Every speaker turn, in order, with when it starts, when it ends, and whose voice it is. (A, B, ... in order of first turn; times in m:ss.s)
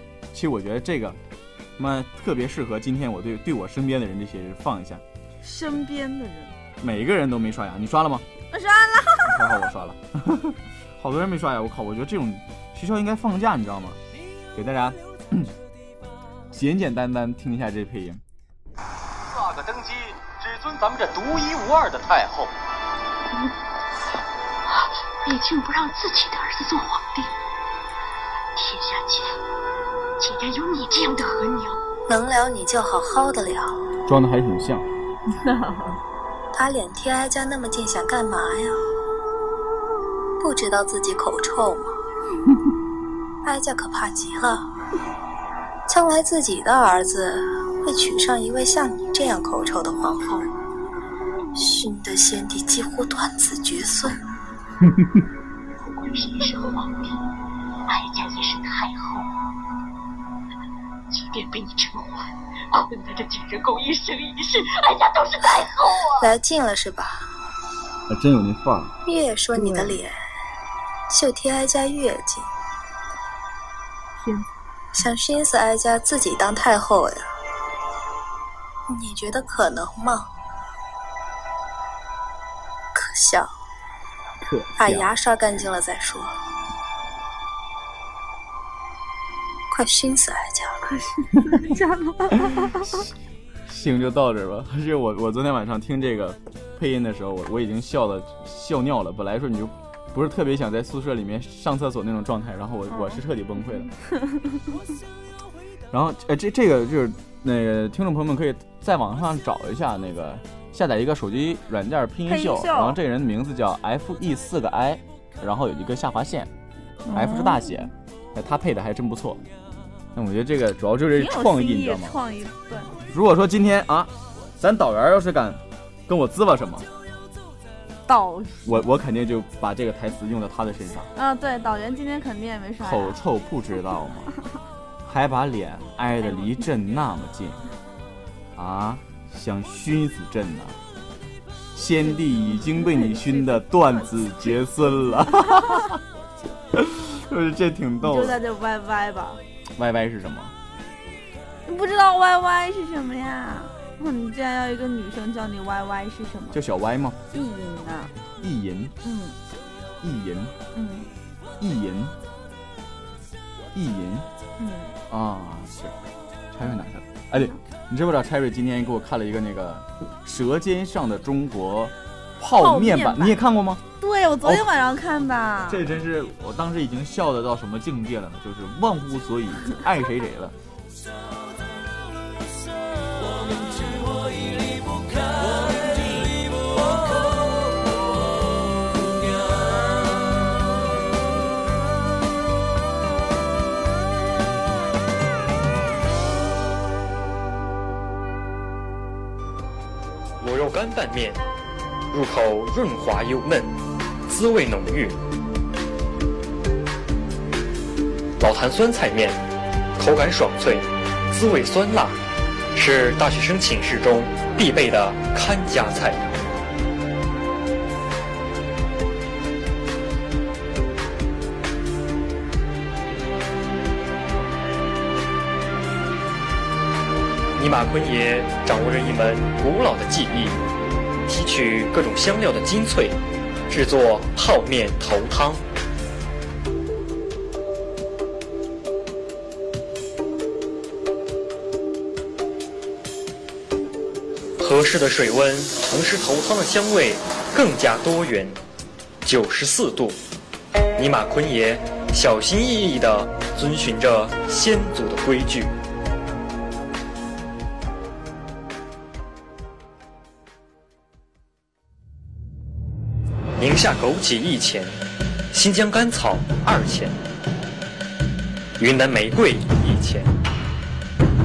0:00.3-0:01.2 A
0:01.8-0:05.0 A
0:05.4-0:06.5 B
0:06.8-0:08.2 A
0:08.5-0:09.6 B
0:09.2-0:14.0 A
0:14.5-0:15.5 A
0:16.5-0:18.2 A
0:19.3-0:22.5 C
0:24.7-0:27.3 D
0:28.6-0:29.4 D
0:30.2-0:31.8 D
0:32.1-0:33.8 E
0:34.0-0:34.8 A
0:35.4-0:35.9 B
0:36.5-0:38.8 E
0:40.4-0:41.9 E
0:43.4-0:44.6 E
0:45.9-0:50.5 E
0:51.5-0:54.2 E
0:55.8-0:57.1 D
0:57.9-0:59.3 D
1:01.1-1:06.2 D
1:06.2-1:07.3 E
1:08.1-1:08.9 A
1:09.0-1:10.2 E
1:09.6-1:10.0 A
1:11.1-1:12.4 E
1:14.9-1:17.3 E
1:18.9-1:20.3 E
1:22.9-1:23.5 E
1:24.4-1:25.1 A
1:24.8-1:26.3 E
1:29.7-1:30.8 E
1:30.8-1:33.0 B
1:32.3-1:33.1 A
1:33.6-1:43.9 A
1:42.9-1:43.2 B
1:43.8-1:44.4 B
1:45.9-1:56.5 A
1:52.3-1:53.0 B
1:57.0-1:57.9 B
1:57.1-1:59.4 A
2:00.1-2:02.2 A
2:01.1-2:02.9 B
2:03.1-2:06.9 A
2:08.0-2:08.7 B
2:08.6-2:11.1 A
2:11.1-2:13.2 B
2:12.8-2:14.3 A
2:15.0-2:17.6 A
2:18.6-2:20.8 A
2:21.7-2:26.0 A
2:22.2-2:23.6 B
2:26.7-2:28.4 A
2:28.0-2:29.4 B
2:29.8-2:30.5 A
2:31.6-2:36.6 B
2:36.5-2:37.2 A
2:37.3-2:38.1 B
2:38.4-2:38.9 A
2:39.0-2:39.4 B
2:40.0-2:40.5 A
2:40.7-2:41.1 B
2:41.6-2:42.1 A
2:43.7-2:44.3 A
2:44.6-2:45.0 B
2:45.1-2:45.9 A
2:46.5-2:53.8 A
2:52.6-2:53.4 B
2:54.0-2:55.8 B
2:55.7-3:00.5 A
3:20.4-3:21.4 F
3:22.1-3:23.7 F
3:24.3-3:25.2 F
3:28.4-3:29.4 F
3:30.0-3:32.2 F
3:32.7-3:36.3 F
3:47.6-3:50.6 F
3:51.2-3:53.2 F
3:53.7-3:55.6 F
4:04.6-4:08.6 F
4:09.2-4:10.2 F
4:11.0-4:15.7 F
4:23.6-4:24.9 F
4:25.5-4:27.1 F
4:28.8-4:30.3 F